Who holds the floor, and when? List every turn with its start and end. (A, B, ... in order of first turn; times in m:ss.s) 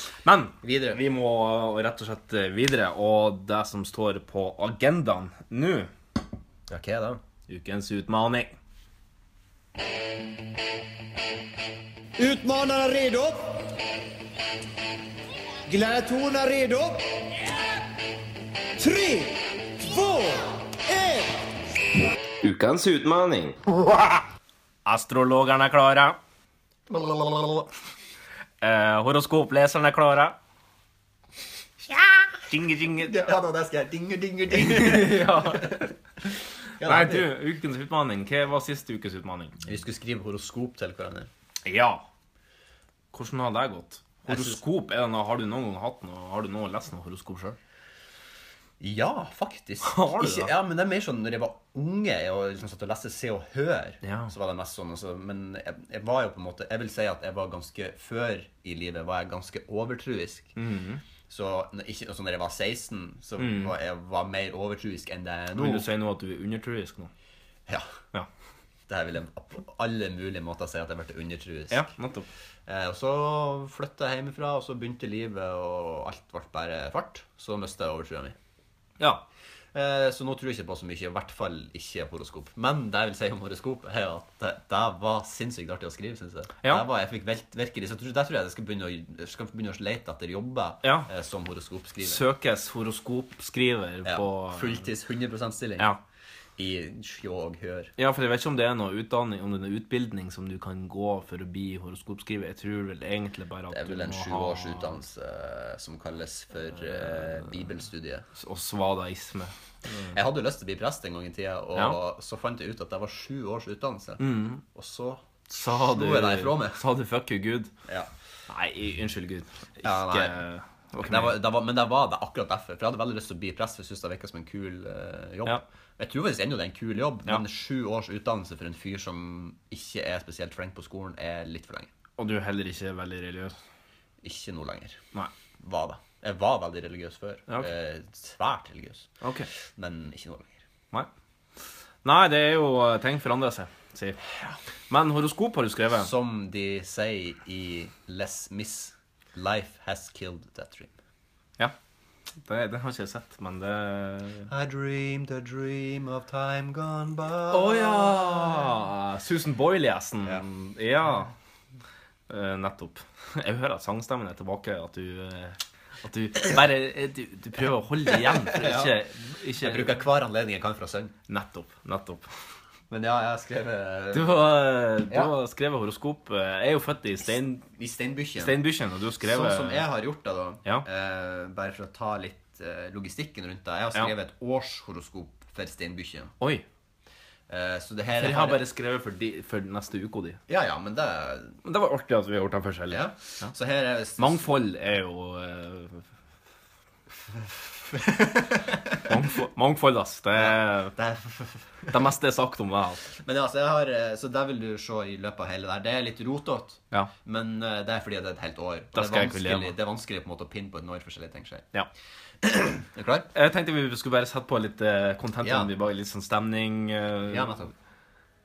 0:00.2-0:05.9 A
0:00.6-0:01.0 B
0:06.7-0:07.2 B
0:07.5-0:08.5 A
0:12.2-0:13.7 C
0:15.7-0:17.2 C
0:18.8-0:21.4 C
0:22.4-0:23.6 A
0:24.8-0:26.2 A
0:26.9-0:27.7 B
0:28.6-0:30.4 A
0:32.5-0:33.2 A
0:33.0-0:36.3 B
0:34.6-0:35.9 A
0:36.8-0:37.3 B
0:36.8-0:39.6 A
0:39.6-0:41.3 B
0:41.6-0:42.0 A
0:43.1-0:47.6 A
0:44.3-0:44.6 B
0:48.8-1:00.5 B
0:49.8-0:50.5 A
0:54.0-0:54.3 A
1:00.6-1:01.0 A
1:01.3-1:05.9 B
1:03.4-1:03.7 A
1:05.5-1:07.1 A
1:07.7-1:08.0 B
1:08.9-1:11.9 B
1:11.7-1:12.3 A
1:12.7-1:18.4 B
1:19.0-1:19.2 A
1:19.7-1:32.2 B
1:30.8-1:31.1 A
1:32.0-1:34.8 A
1:34.0-1:35.9 B
1:36.6-1:37.9 B
1:38.0-1:45.0 A
1:43.7-1:48.3 B
1:48.3-1:50.2 A
1:50.1-1:56.8 B
1:54.2-1:54.6 A
1:55.5-1:57.7 A
1:58.5-2:01.4 A
1:59.8-2:00.4 B
2:01.0-2:11.9 B
2:12.2-2:13.6 A
2:14.2-2:15.0 B
2:15.6-2:19.1 B
2:19.2-2:19.5 A
2:19.7-2:20.6 B
2:22.0-2:24.2 A
2:24.9-2:26.1 A
2:25.9-2:30.9 B
2:32.4-2:34.5 A
2:34.5-2:38.7 B
2:37.5-2:41.3 A
2:42.3-2:50.0 A
2:48.1-2:49.0 B
2:49.6-2:51.1 B
2:51.3-2:52.3 A
2:52.9-2:54.4 B
2:54.1-2:57.6 A
2:57.6-2:58.6 B
2:58.4-2:59.9 A
2:59.2-3:06.3 B
3:07.5-3:08.6 B
3:08.2-3:10.4 A
3:10.5-3:11.6 B
3:11.6-3:13.5 A
3:12.9-3:14.5 B
3:14.2-3:16.1 A
3:17.9-3:19.0 B
3:19.0-3:20.9 A
3:20.3-3:22.0 B
3:21.9-3:23.0 A
3:23.1-3:31.7 B
3:28.9-3:29.7 A
3:32.4-3:33.3 B
3:33.3-3:37.6 A
3:35.4-3:35.7 B
3:37.3-3:37.7 B